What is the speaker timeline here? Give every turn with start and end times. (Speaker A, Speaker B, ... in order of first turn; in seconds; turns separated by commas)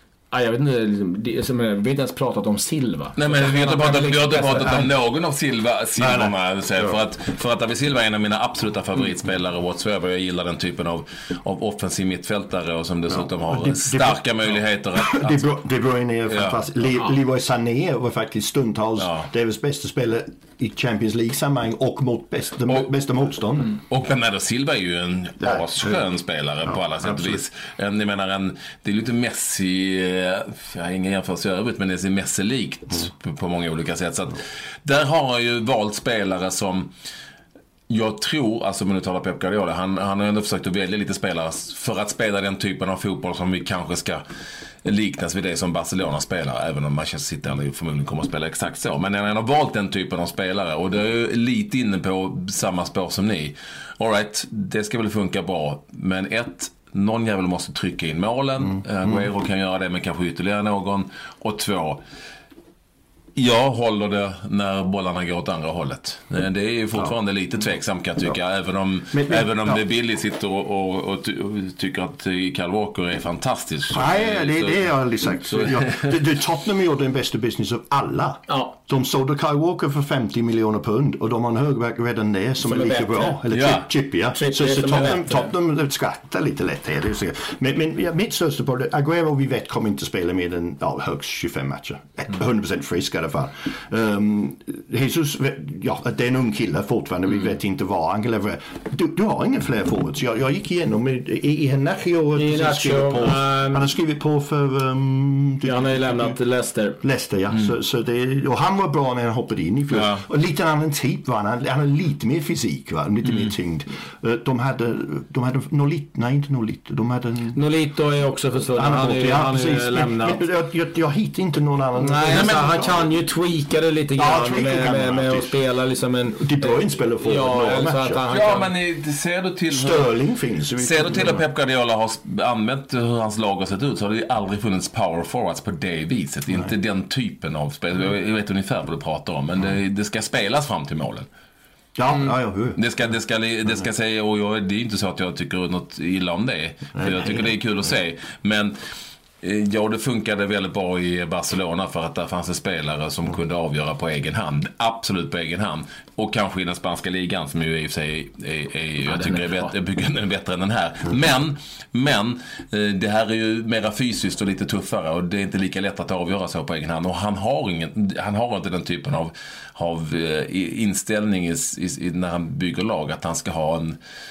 Speaker A: 0.3-4.9, Speaker B: 3.1-15.4, Speaker C: 6.0-7.0, Speaker C: 13.1-14.3, Speaker C: 14.9-23.7, Speaker B: 16.3-16.6, Speaker B: 19.0-19.3, Speaker B: 23.7-36.9, Speaker C: 25.4-26.0, Speaker C: 26.6-27.4, Speaker B: 37.9-44.2, Speaker B: 44.8-62.0, Speaker B: 63.4-74.9, Speaker C: 69.1-69.8, Speaker C: 73.9-106.3, Speaker B: 75.4-76.2, Speaker A: 78.5-78.7, Speaker A: 82.6-83.4, Speaker B: 83.5-83.9, Speaker A: 84.3-85.5, Speaker A: 102.3-103.9, Speaker A: 105.6-107.0, Speaker C: 107.0-117.6, Speaker B: 109.9-110.2, Speaker A: 117.5-120.4, Speaker C: 118.7-123.0, Speaker A: 122.0-128.7, Speaker C: 124.2-125.6, Speaker C: 126.4-128.2, Speaker B: 128.3-130.1, Speaker C: 129.7-131.4, Speaker B: 130.8-141.2, Speaker C: 141.9-142.8, Speaker B: 142.8-148.7, Speaker C: 146.9-147.5, Speaker B: 149.4-174.0, Speaker A: 159.0-159.7